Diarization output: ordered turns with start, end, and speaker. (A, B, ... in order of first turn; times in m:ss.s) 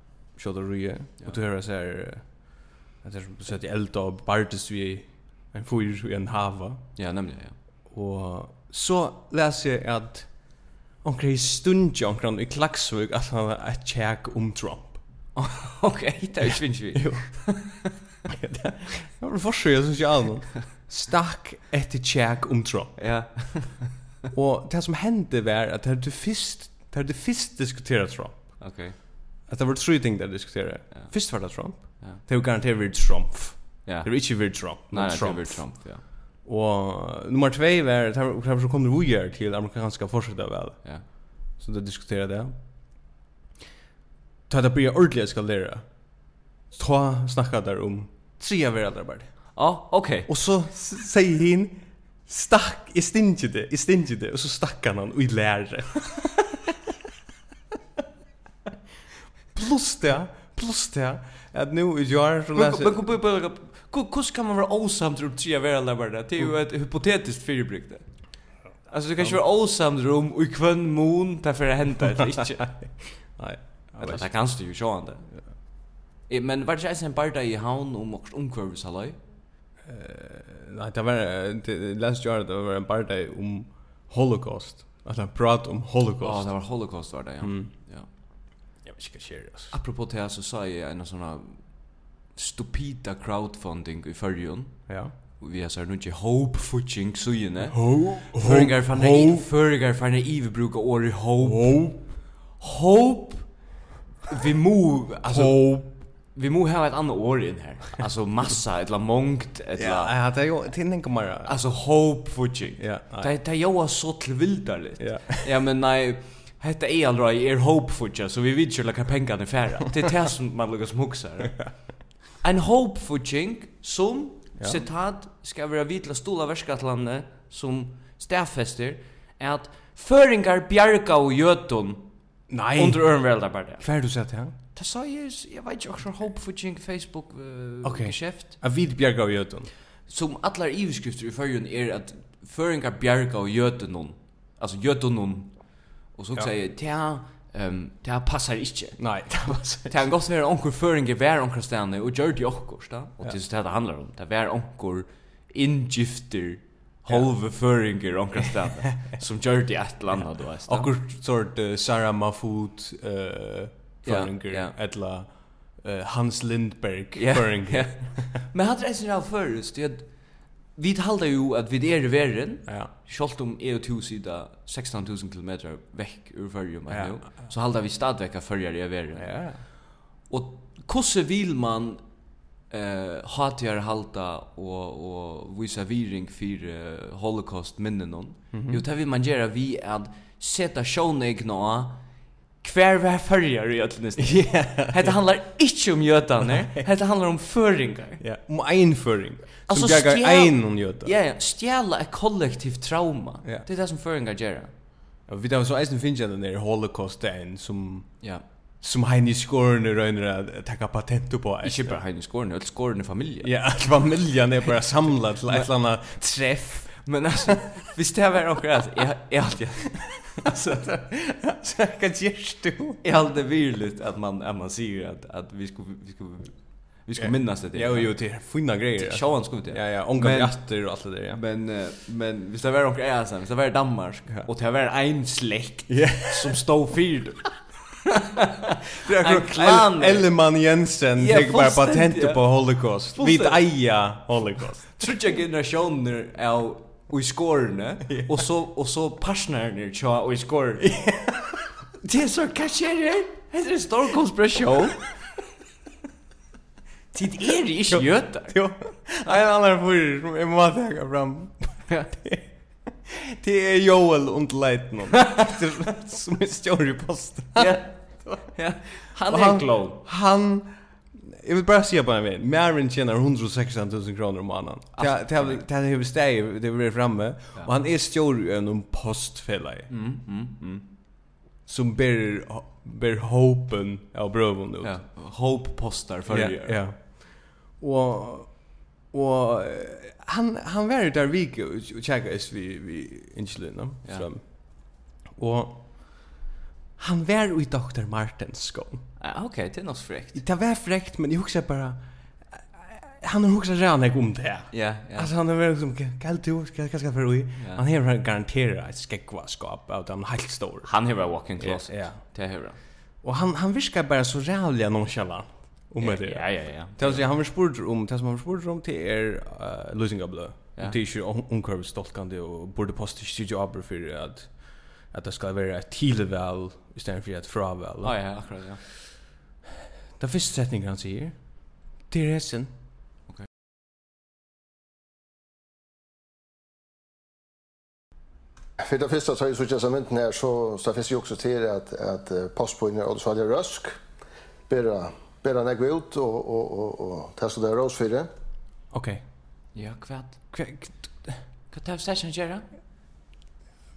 0:00.3-0:06.8 A
0:07.0-0:07.5 B
0:07.9-0:15.0 A
0:15.4-0:17.9 B
0:16.9-0:17.4 A
0:18.3-0:23.0 A
0:23.0-0:24.0 B
0:24.3-0:28.7 A
0:28.6-0:28.9 B
0:29.5-0:35.7 A
0:30.9-0:32.2 B
0:33.8-0:36.0 B
0:36.4-0:42.5 A
0:44.5-0:46.0 A
0:46.7-0:49.6 A
0:49.5-0:50.3 B
0:50.3-0:56.5 A
0:59.5-1:03.0 A
1:02.5-1:08.0 B
1:08.9-1:12.7 B
1:12.6-1:14.3 A
1:14.0-1:15.7 B
1:16.2-1:19.2 B
1:19.8-1:26.7 A
1:26.2-1:28.1 B
1:27.4-1:27.7 A
1:28.8-1:29.7 A
1:29.7-1:43.6 B
1:34.9-1:35.1 A
1:37.7-1:39.5 A
1:41.4-1:42.0 A
1:44.3-1:50.2 B
1:45.2-1:45.9 A
1:49.8-1:51.6 A
1:51.4-2:01.7 B
1:52.8-1:53.3 A
1:55.0-1:55.5 A
2:01.5-2:01.7 A
2:02.4-2:12.1 B
2:12.5-2:13.3 A
2:12.8-2:13.9 B
2:13.8-2:14.5 A
2:14.7-2:18.6 B
2:17.8-2:19.7 A
2:20.1-2:25.6 B
2:26.1-2:29.0 B
2:29.0-2:30.0 A
2:29.9-2:40.9 B
2:40.2-2:48.3 A
2:44.0-2:44.8 B
2:47.1-2:59.4 B
2:56.9-2:57.5 A
2:59.2-2:59.6 A
3:00.3-3:02.0 B
3:02.7-3:12.0 B
3:08.5-3:08.8 A
3:12.6-3:18.2 B
3:14.2-3:15.1 A
3:16.4-3:16.8 A
3:18.2-3:21.1 A
3:19.7-3:24.7 B
3:25.3-3:28.2 A
3:28.8-3:31.9 A
3:31.6-3:33.8 B
3:33.4-3:37.1 A
3:37.0-3:40.9 B
3:40.8-3:43.0 A
3:43.0-3:48.3 B
3:47.2-3:51.4 A
3:49.0-3:57.5 B
3:55.9-3:56.6 A
3:58.1-4:00.4 B
3:59.0-4:05.0 A
4:01.2-4:03.6 B
4:04.9-4:10.9 B
4:08.1-4:08.4 A
4:10.8-4:11.6 A
4:12.0-4:15.0 B
4:17.1-4:18.6 B
4:17.9-4:28.4 A
4:27.6-4:30.0 B
4:29.3-4:39.9 A
4:35.0-4:35.6 B
4:39.9-4:40.8 B
4:41.6-4:45.0 A
4:44.8-4:46.8 B
4:46.3-4:56.2 A
4:57.0-4:59.0 A
4:59.2-5:00.4 B
5:00.3-5:12.2 A
5:04.7-5:05.3 B
5:07.6-5:07.8 B
5:10.8-5:12.8 B
5:13.2-5:28.4 A
5:16.0-5:17.2 B
5:28.0-5:28.8 B
5:30.2-5:31.4 A
5:32.1-5:32.7 A
5:38.8-5:44.0 C
5:44.7-5:48.3 C
5:48.9-5:49.2 A
5:49.7-5:50.4 B
5:50.5-5:51.4 A
5:51.7-5:52.6 B